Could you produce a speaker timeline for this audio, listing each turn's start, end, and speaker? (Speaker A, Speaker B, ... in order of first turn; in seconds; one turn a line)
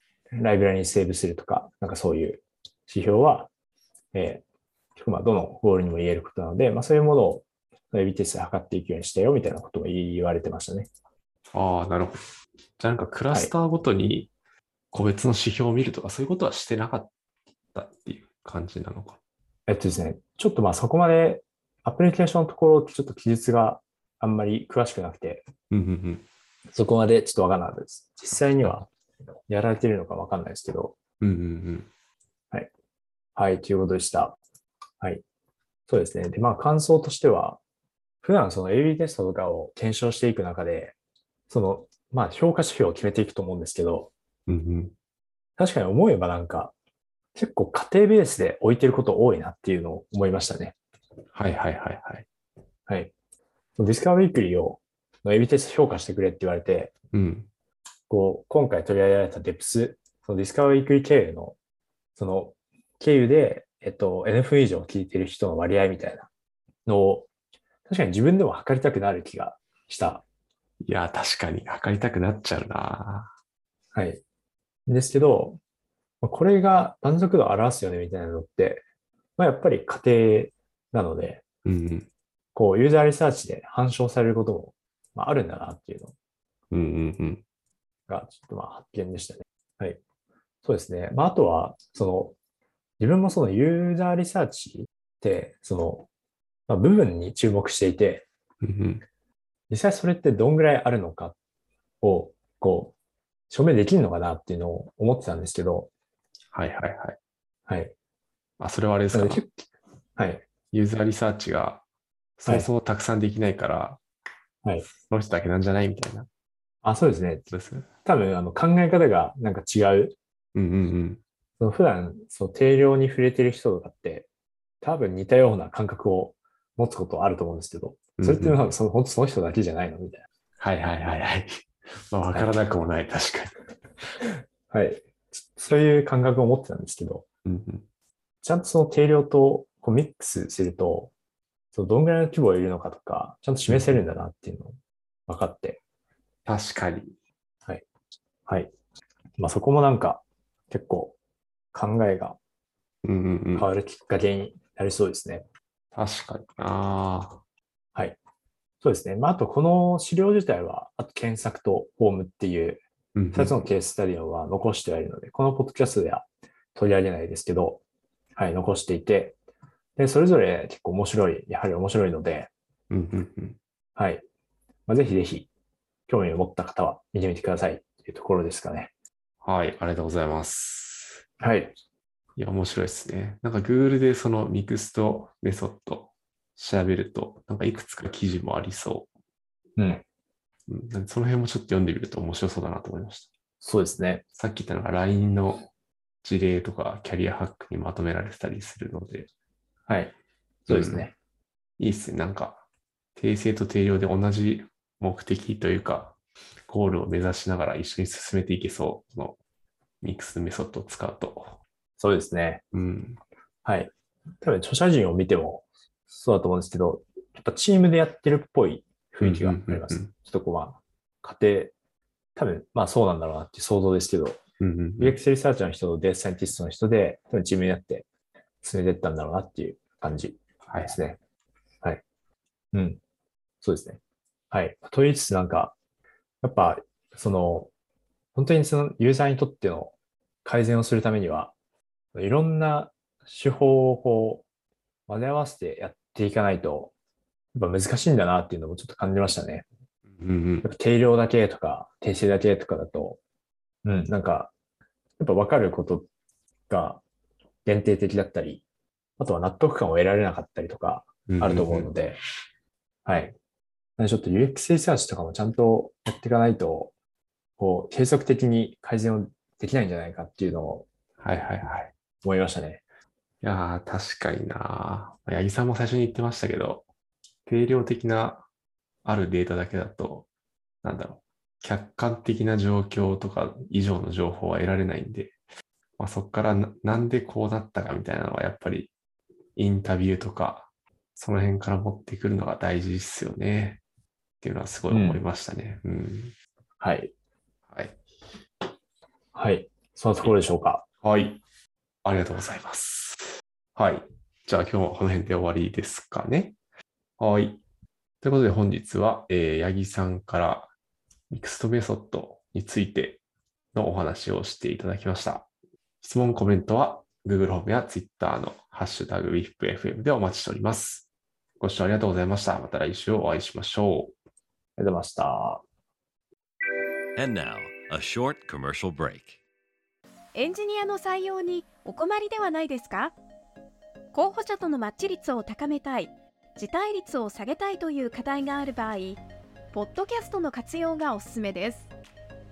Speaker A: 0.4-3.5
Speaker A: 4.1-4.4
Speaker A: 5.0-10.9
Speaker B: 11.5-12.3
Speaker B: 12.8-14.3
Speaker B: 14.9-17.1
Speaker B: 17.7-19.2
Speaker A: 19.7-25.5
Speaker B: 25.7-26.2
Speaker A: 26.7-28.9
Speaker B: 28.6-28.9
Speaker A: 29.5-31.0
Speaker B: 31.2-31.9
Speaker A: 33.4-34.4
Speaker A: 35.9-37.6
Speaker A: 38.2-41.0
Speaker A: 41.5-44.1
Speaker B: 44.5-44.9
Speaker A: 45.6-46.7
Speaker A: 47.4-50.8
Speaker B: 51.3-52.3
Speaker A: 52.9-53.1
Speaker A: 53.8-56.9
Speaker B: 57.1-57.5
Speaker A: 58.1-61.6
Speaker A: 62.2-66.3
Speaker A: 66.9-67.3
Speaker A: 67.9-70.2
Speaker B: 70.8-73.3
Speaker A: 73.9-74.2
Speaker A: 74.9-75.6
Speaker A: 76.2-78.8
Speaker A: 79.4-81.4
Speaker B: 81.7-82.1
Speaker A: 82.5-86.1
Speaker B: 86.7-87.4
Speaker A: 88.1-90.0
Speaker A: 90.6-92.3
Speaker A: 93.0-96.1
Speaker A: 96.7-98.3
Speaker B: 98.6-99.0
Speaker A: 99.7-101.4
Speaker A: 102.0-102.9
Speaker A: 103.5-105.9
Speaker B: 106.5-107.2
Speaker A: 107.7-107.9
Speaker B: 108.6-109.5
Speaker A: 109.1-109.5
Speaker A: 110.2-110.4
Speaker B: 110.7-111.8
Speaker B: 112.4-114.0
Speaker B: 115.1-116.3
Speaker A: 116.8-117.5
Speaker B: 117.5-117.9
Speaker A: 118.0-120.1
Speaker B: 120.5-121.2
Speaker A: 121.6-124.3
Speaker A: 124.8-130.2
Speaker B: 128.2-128.6
Speaker B: 130.6-133.6
Speaker A: 134.7-137.2
Speaker B: 137.5-137.8
Speaker A: 138.4-141.1
Speaker A: 141.7-145.8
Speaker B: 143.7-144.0
Speaker B: 146.5-147.2
Speaker A: 148.5-148.7
Speaker A: 149.4-151.2
Speaker A: 151.7-152.4
Speaker B: 153.0-153.7
Speaker A: 153.6-155.4
Speaker B: 155.9-157.4
Speaker A: 158.8-162.8
Speaker B: 163.2-163.6
Speaker A: 163.3-167.8
Speaker A: 168.4-169.4
Speaker A: 170.0-172.5
Speaker B: 172.9-173.6
Speaker A: 174.0-174.2
Speaker A: 174.9-175.5
Speaker A: 176.1-178.9
Speaker B: 179.4-181.3
Speaker A: 181.4-181.8
Speaker B: 182.4-189.1
Speaker A: 189.8-190.0
Speaker B: 190.7-193.3
Speaker A: 193.6-194.2
Speaker B: 194.3-195.7
Speaker B: 196.2-199.3
Speaker A: 199.9-200.2
Speaker A: 200.7-201.1
Speaker B: 200.7-201.0
Speaker B: 201.8-202.6
Speaker B: 203.2-209.4
Speaker B: 210.0-211.6
Speaker A: 212.0-212.6
Speaker B: 212.7-213.2
Speaker A: 213.7-221.7
Speaker B: 219.2-220.1
Speaker A: 222.4-224.4
Speaker B: 224.6-225.2
Speaker A: 225.0-228.1
Speaker A: 228.6-231.2
Speaker B: 230.7-231.0
Speaker A: 232.7-233.0
Speaker A: 233.6-234.0
Speaker A: 234.5-235.8
Speaker A: 236.4-237.7
Speaker A: 238.3-239.9
Speaker A: 240.4-241.5
Speaker A: 242.1-244.4
Speaker A: 245.1-246.9
Speaker A: 247.6-249.7
Speaker B: 250.1-250.7
Speaker A: 250.6-253.2
Speaker A: 253.8-254.5
Speaker A: 255.2-256.1
Speaker A: 256.7-257.0
Speaker A: 257.6-258.6
Speaker A: 259.2-262.2
Speaker B: 261.3-261.9
Speaker A: 263.1-263.4
Speaker A: 264.0-266.9
Speaker A: 267.6-270.9
Speaker B: 271.2-271.9
Speaker A: 272.2-272.8
Speaker B: 273.4-276.9
Speaker B: 277.5-278.5
Speaker B: 279.0-280.3
Speaker B: 280.8-285.4
Speaker B: 286.0-288.9
Speaker B: 289.6-293.8
Speaker B: 294.4-296.4
Speaker A: 294.9-295.2
Speaker A: 296.8-297.1
Speaker B: 297.7-298.0
Speaker A: 299.4-300.8
Speaker B: 301.0-301.4
Speaker B: 302.0-306.6
Speaker B: 307.2-307.6
Speaker B: 308.2-310.7
Speaker B: 311.3-313.2
Speaker B: 313.7-315.5
Speaker B: 316.0-321.1
Speaker B: 321.6-324.1
Speaker A: 324.8-325.6
Speaker C: 327.2-329.4
Speaker D: 330.4-333.1
Speaker D: 334.1-339.2
Speaker D: 339.7-341.9